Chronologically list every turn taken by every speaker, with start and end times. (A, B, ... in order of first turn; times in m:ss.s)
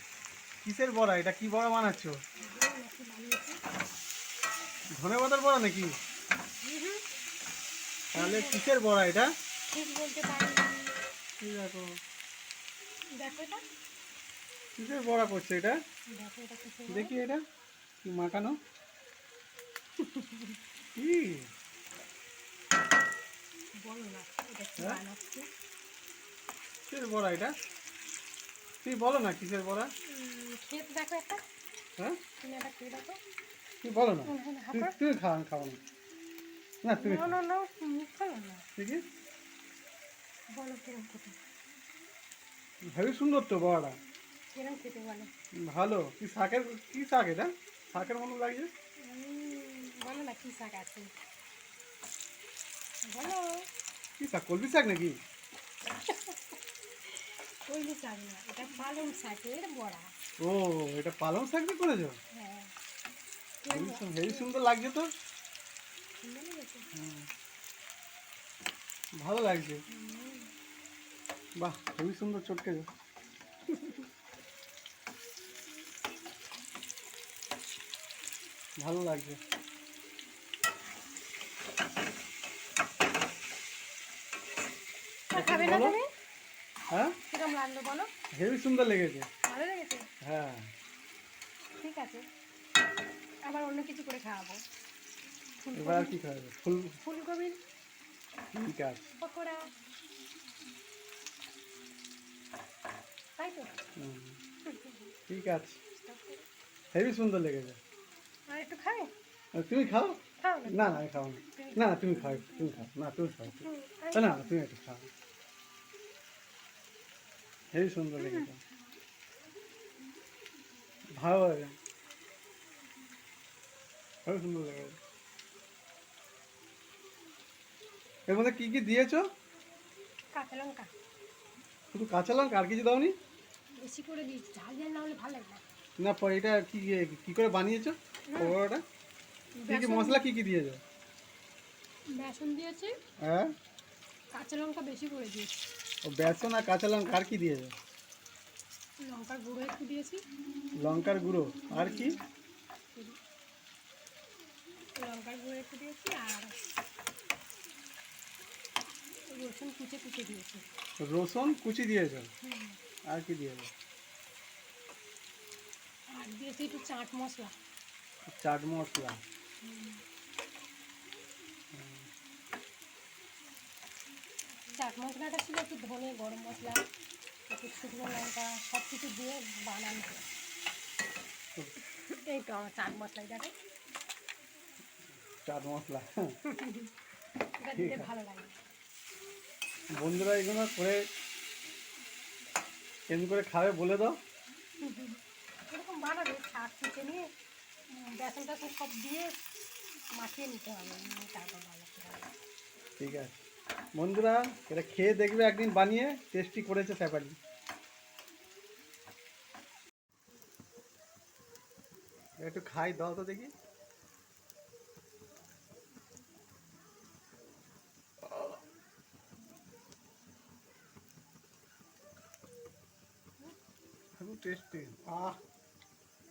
0:00.6-0:02.2 A
0:02.4-0:03.6 B
0:05.0-0:06.0 A
0:06.6-0:07.0 B
0:08.1-0:09.3 A
0:08.2-0:08.7 B
0:09.7-0:11.0 B
0:11.4-0:11.9 A
0:13.2-0:13.6 B
0:14.8-0:15.8 A
0:16.1-0:17.1 B
0:16.9-0:17.4 A
0:18.0-0:18.6 A
0:20.0-0:20.6 B
0:21.0-0:21.5 A
0:23.8-0:25.5 B
0:26.9-0:27.6 A
0:28.8-0:29.9 A
0:30.0-0:31.4 B
0:32.4-0:33.2 B
0:33.8-0:35.8 A
0:34.3-0:35.0 B
0:36.8-0:37.4 A
0:37.0-0:38.6 B
0:38.8-0:39.0 A
0:40.5-0:41.4 B
0:42.9-0:44.0 A
0:44.5-0:45.3 B
0:45.6-0:48.7 A
0:49.0-0:51.1 B
0:53.1-0:53.6 B
0:54.2-0:55.2 A
0:56.1-1:00.1 B
1:00.4-1:02.2 A
1:02.3-1:02.7 B
1:03.6-1:04.5 B
1:03.7-1:05.1 A
1:06.2-1:06.9 B
1:07.0-1:07.3 A
1:09.2-1:09.8 A
1:09.9-1:10.5 B
1:11.6-1:12.9 A
1:13.7-1:14.0 B
1:18.8-1:19.4 A
1:25.3-1:26.1 B
1:25.4-1:26.0 A
1:26.9-1:27.2 A
1:27.3-1:28.1 B
1:28.3-1:29.3 A
1:29.4-1:30.1 B
1:30.2-1:30.7 A
1:31.8-1:32.2 B
1:33.5-1:34.6 B
1:35.6-1:36.2 B
1:35.8-1:37.0 A
1:37.0-1:37.6 B
1:38.5-1:39.1 A
1:39.2-1:39.6 B
1:43.4-1:43.7 B
1:44.0-1:44.4 A
1:44.7-1:45.1 B
1:45.3-1:45.8 A
1:45.9-1:46.4 B
1:46.9-1:47.8 A
1:48.5-1:49.1 B
1:49.6-1:55.1 A
1:50.4-1:52.9 B
1:53.5-1:54.5 B
1:57.7-1:58.6 A
1:58.2-1:58.5 B
2:01.2-2:01.8 A
2:04.3-2:05.0 A
2:08.3-2:09.2 A
2:10.3-2:10.9 B
2:11.9-2:13.1 A
2:13.8-2:15.6 B
2:16.0-2:18.8 A
2:18.3-2:18.6 B
2:19.6-2:20.2 B
2:19.7-2:20.8 A
2:22.1-2:22.9 B
2:23.2-2:23.5 A
2:24.3-2:25.6 B
2:26.0-2:27.7 A
2:29.0-2:30.2 B
2:30.8-2:32.2 A
2:31.7-2:32.3 B
2:35.0-2:36.6 B
2:39.3-2:40.6 B
2:41.0-2:42.3 A
2:42.4-2:42.8 B
2:43.1-2:43.7 A
2:46.1-2:47.5 B
2:48.3-2:49.2 A
2:49.6-2:50.0 B
2:51.7-2:52.1 A
2:54.7-2:56.8 B
2:57.5-3:00.2 B
3:01.8-3:03.5 B
3:05.2-3:06.3 A
3:06.4-3:06.9 B
3:07.6-3:08.6 B
3:07.8-3:08.1 A
3:10.0-3:11.1 A
3:13.1-3:14.2 A
3:14.8-3:17.2 B
3:17.9-3:19.4 B
3:20.2-3:22.3 B
3:23.0-3:27.4 A
3:32.4-3:33.5 A
3:44.2-3:45.4 A